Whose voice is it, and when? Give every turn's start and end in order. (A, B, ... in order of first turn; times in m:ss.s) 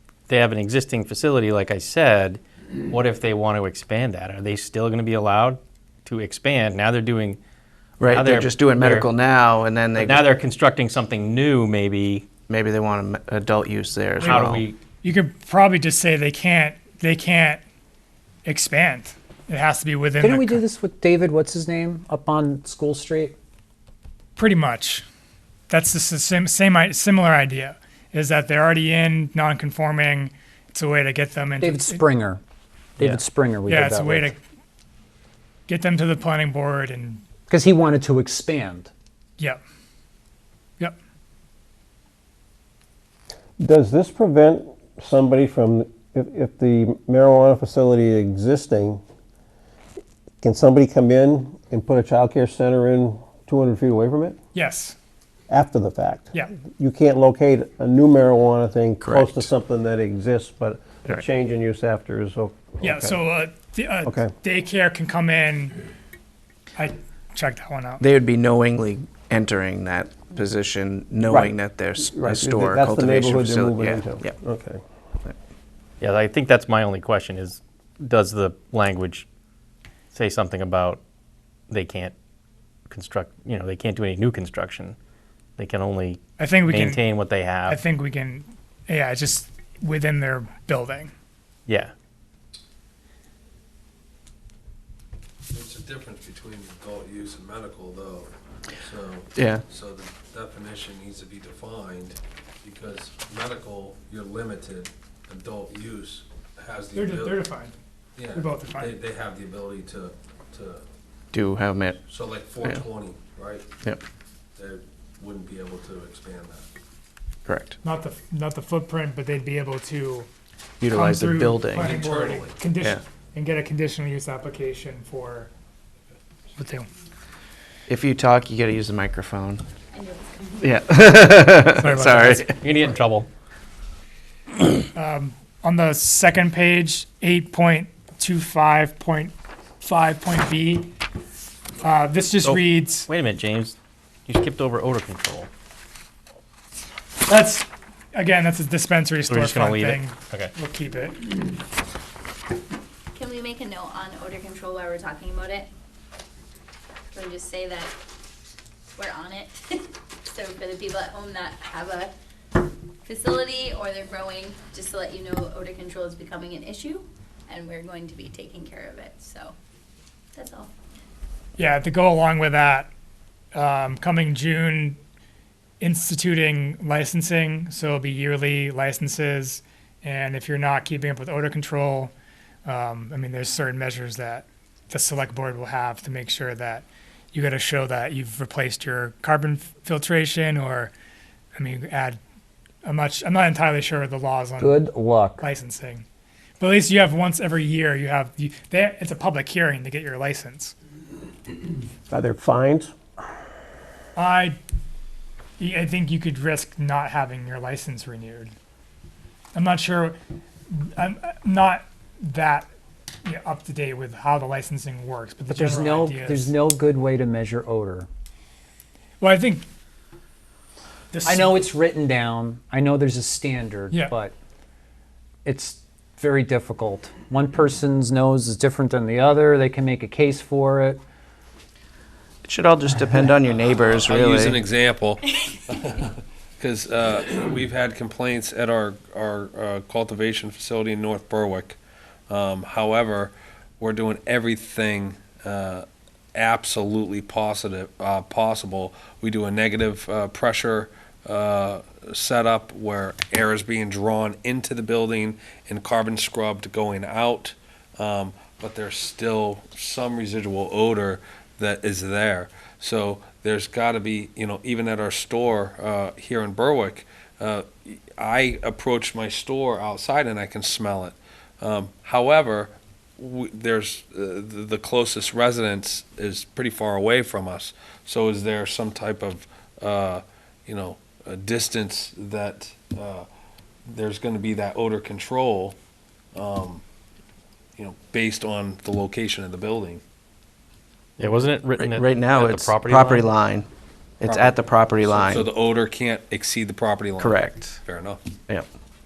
0:00.3-0:07.4 A
0:08.0-0:10.3 B
0:08.0-0:09.1 A
0:10.0-0:12.3 A
0:12.5-0:14.7 B
0:14.2-0:14.5 C
0:14.2-0:14.8 A
0:15.0-0:17.6 C
0:18.4-0:20.6 C
0:20.2-0:23.4 D
0:24.4-0:25.1 C
0:25.7-0:32.0 C
0:31.6-0:32.4 D
0:33.0-0:34.3 D
0:33.7-0:34.4 C
0:35.7-0:37.2 C
0:37.5-0:38.9 D
0:43.6-0:49.0 E
0:50.4-0:54.4 E
0:54.5-0:55.0 C
0:55.5-1:03.2 E
0:59.0-0:59.5 B
1:02.8-1:05.8 C
1:04.0-1:04.3 E
1:06.8-1:08.0 C
1:08.0-1:14.3 B
1:11.3-1:14.8 E
1:16.0-1:19.3 A
1:20.1-1:21.0 A
1:21.7-1:22.1 A
1:22.9-1:25.0 A
1:25.6-1:27.8 A
1:26.4-1:27.0 C
1:27.6-1:31.1 C
1:31.7-1:31.9 A
1:35.5-1:47.5 F
1:39.4-1:39.6 B
1:46.9-1:47.8 C
1:48.2-1:50.8 F
1:48.3-1:49.0 C
1:51.3-1:52.0 B
1:52.0-1:53.7 F
1:54.6-1:56.7 F
1:57.5-1:57.8 B
1:57.8-2:00.3 C
2:00.8-2:01.9 B
2:00.9-2:05.5 C
2:01.8-2:02.6 F
2:06.6-2:06.9 C
2:07.9-2:09.6 B
2:09.9-2:10.6 G
2:10.6-2:12.6 B
2:11.7-2:12.5 C
2:12.5-2:13.3 A
2:15.0-2:20.9 C
2:21.8-2:23.1 C
2:22.4-2:23.8 A
2:24.3-2:25.5 A
2:27.3-2:31.2 C
2:29.3-2:30.5 A
2:33.1-2:35.7 G
2:37.1-2:37.9 G
2:38.9-2:42.1 G
2:43.1-2:49.5 G
2:50.3-2:50.7 G
2:51.6-2:52.9 C
2:53.5-2:55.0 C
2:55.8-3:02.1 C
3:02.6-3:10.9 C
3:11.6-3:12.2 C
3:12.8-3:14.8 C
3:14.6-3:15.5 D
3:15.4-3:16.0 C
3:16.6-3:20.8 C
3:22.1-3:22.9 E
3:24.2-3:24.6 C
3:25.6-3:28.5 C
3:29.5-3:30.2 C
3:30.7-3:32.7 C
3:33.2-3:36.6 C
3:35.5-3:38.1 D
3:39.2-3:39.6 C
3:41.1-3:41.7 C
3:41.2-3:44.4 D
3:43.9-3:44.2 C
3:45.4-3:51.0 D
3:52.4-3:54.6 B
3:53.7-4:01.8 F
4:02.3-4:43.3 F
4:43.9-4:45.8 F
4:46.4-4:46.8 F
4:47.8-4:50.0 F
4:51.2-4:53.3 A
4:51.8-4:53.7 B
4:54.2-4:55.5 B
4:54.2-4:58.2 F
4:57.2-4:57.8 B